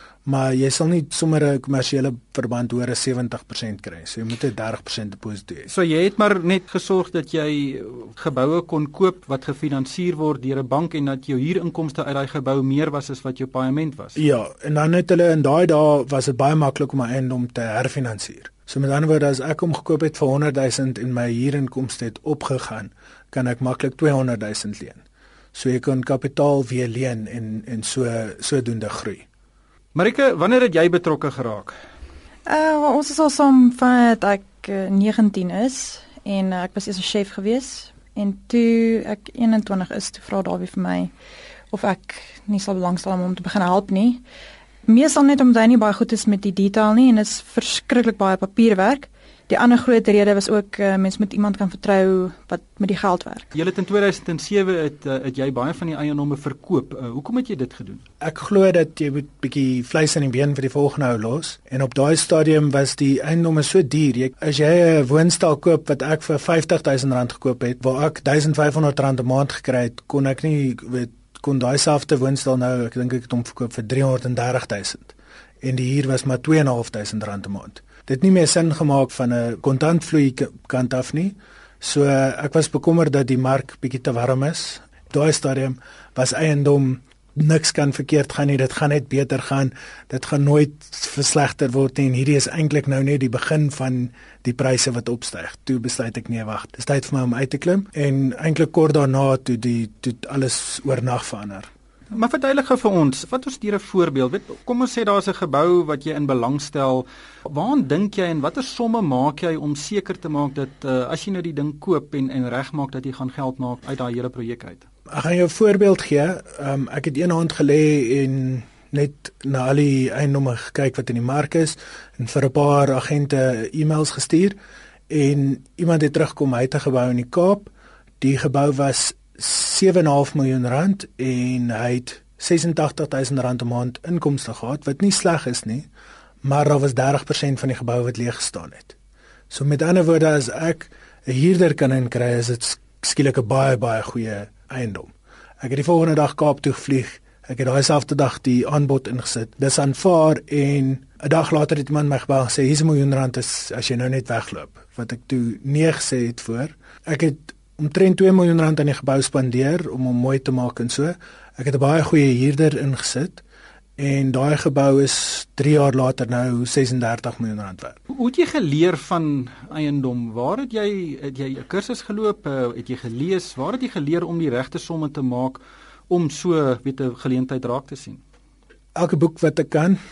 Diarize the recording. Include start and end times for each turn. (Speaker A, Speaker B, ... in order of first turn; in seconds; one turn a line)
Speaker A: 0.2-5.7
Speaker B: 5.7-14.2
Speaker A: 14.2-25.0
Speaker A: 25.5-29.2
Speaker B: 29.9-31.8
Speaker C: 32.5-41.1
Speaker C: 41.7-44.2
Speaker C: 44.9-53.5
Speaker B: 53.5-58.0
Speaker A: 58.2-101.7
Speaker B: 102.1-114.8
Speaker A: 115.1-124.5
Speaker A: 125.1-135.9
Speaker A: 136.4-138.9
Speaker A: 139.5-163.4
Speaker A: 164.0-168.0
Speaker B: 168.1-178.2
Speaker A: 178.9-180.0